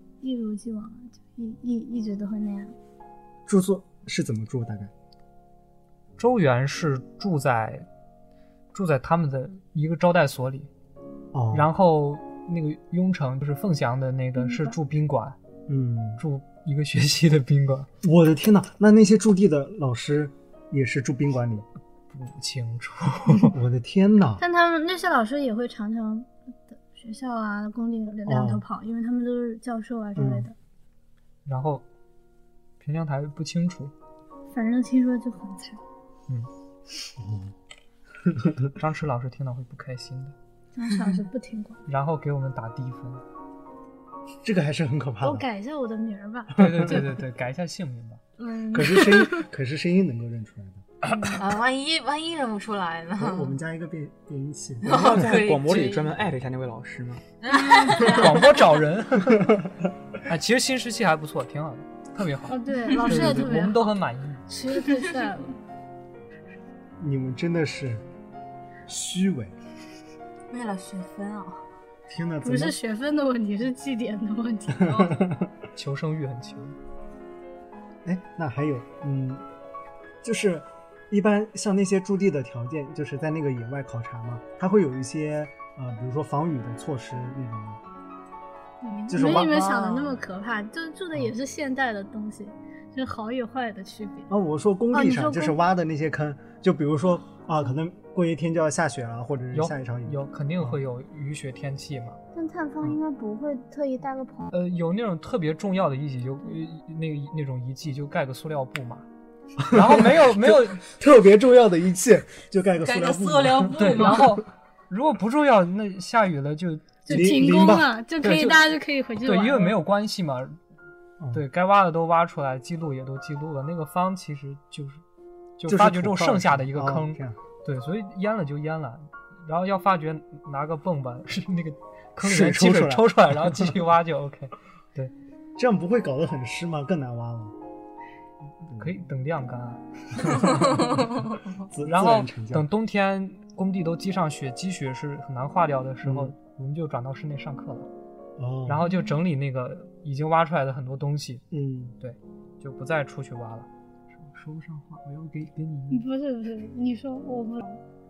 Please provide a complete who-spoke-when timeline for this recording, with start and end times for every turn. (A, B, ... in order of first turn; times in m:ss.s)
0:00.2-0:02.7 A
0:03.4-0:04.9 B
0:06.2-0:07.8 C
0:08.7-0:10.7 C
0:11.3-0:11.7 B
0:11.5-0:15.4 C
0:14.4-0:14.8 A
0:15.7-0:16.2 B
0:16.2-0:17.9 C
0:18.0-0:21.6 B
0:22.1-0:23.5 C
0:23.4-0:24.4 B
0:24.4-0:30.5 A
0:28.2-0:28.6 B
0:30.2-0:30.5 B
0:31.4-0:31.8 C
0:32.8-0:33.9 C
0:34.5-0:35.8 A
0:37.2-0:37.5 B
0:38.2-0:38.7 B
0:38.7-0:40.3 C
0:40.7-0:41.8 A
0:41.9-0:43.2 C
0:44.4-0:45.4 B
0:45.2-0:47.1 A
0:46.5-0:48.2 C
0:46.6-0:47.0 B
0:48.4-0:49.4 A
0:48.7-0:50.9 B
0:51.1-0:51.4 A
0:51.3-0:53.6 D
0:53.2-0:55.3 B
0:54.8-0:56.2 D
0:54.8-0:57.2 E
0:57.4-0:58.6 D
0:57.9-0:59.5 C
1:00.3-1:04.4 C
1:02.5-1:03.9 A
1:04.5-1:05.6 A
1:07.0-1:08.0 B
1:08.8-1:09.5 B
1:10.5-1:11.6 D
1:12.1-1:12.8 B
1:12.4-1:15.1 A
1:14.8-1:15.4 B
1:15.7-1:16.8 C
1:18.0-1:19.4 B
1:20.2-1:27.8 B
1:28.8-1:34.3 A
1:29.1-1:30.0 B
1:29.7-1:30.1 D
1:34.3-1:40.8 B
1:34.9-1:35.6 A
1:39.5-1:42.2 C
1:42.3-1:44.5 A
1:44.5-1:49.0 C
1:49.7-1:50.8 C
1:49.7-1:54.3 B
1:52.8-1:54.4 D
1:53.8-1:57.5 C
1:57.0-1:59.8 A
1:57.1-1:57.9 B
1:58.2-1:58.7 C
1:59.2-2:00.6 C
2:01.3-2:05.0 C
2:05.6-2:15.1 C
2:05.7-2:07.4 B
2:12.2-2:13.8 B
2:15.6-2:17.6 B
2:18.7-2:18.9 B
2:18.7-2:21.0 C
2:20.2-2:21.0 B
2:21.6-2:22.7 B
2:21.8-2:27.9 C
2:26.0-2:26.3 B
2:28.4-2:28.9 B
2:28.7-2:31.4 C
2:31.5-2:32.0 B
2:32.0-2:36.0 C
2:35.9-2:37.8 A